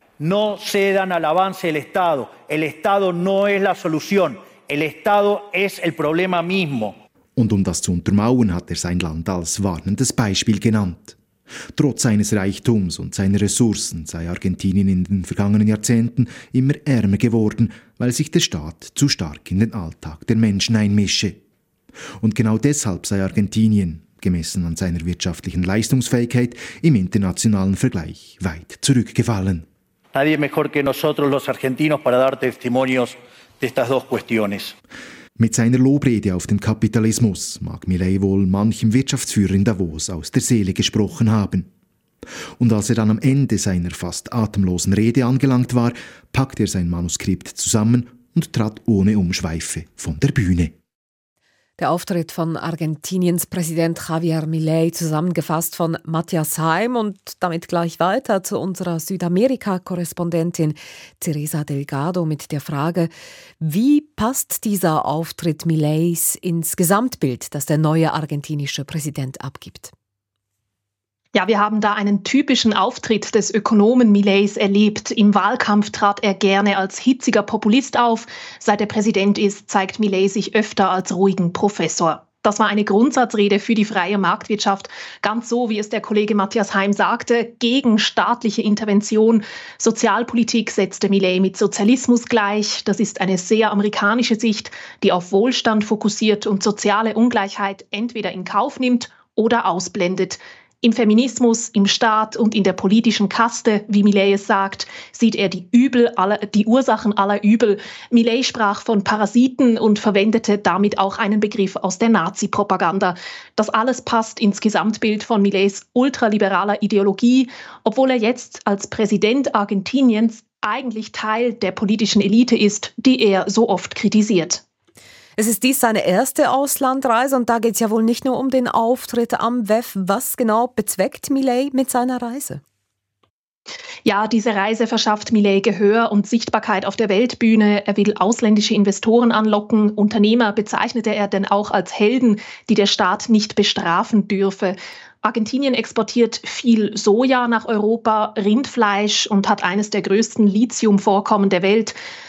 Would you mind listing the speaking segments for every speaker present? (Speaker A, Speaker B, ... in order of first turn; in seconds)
Speaker A: 0.2-7.0, 30.1-34.8
Speaker B: 7.4-11.2, 11.7-21.4, 22.2-29.7, 35.4-41.7, 42.6-50.8
Speaker C: 51.8-69.9, 125.4-132.6
Speaker D: 71.3-124.6, 134.1-152.0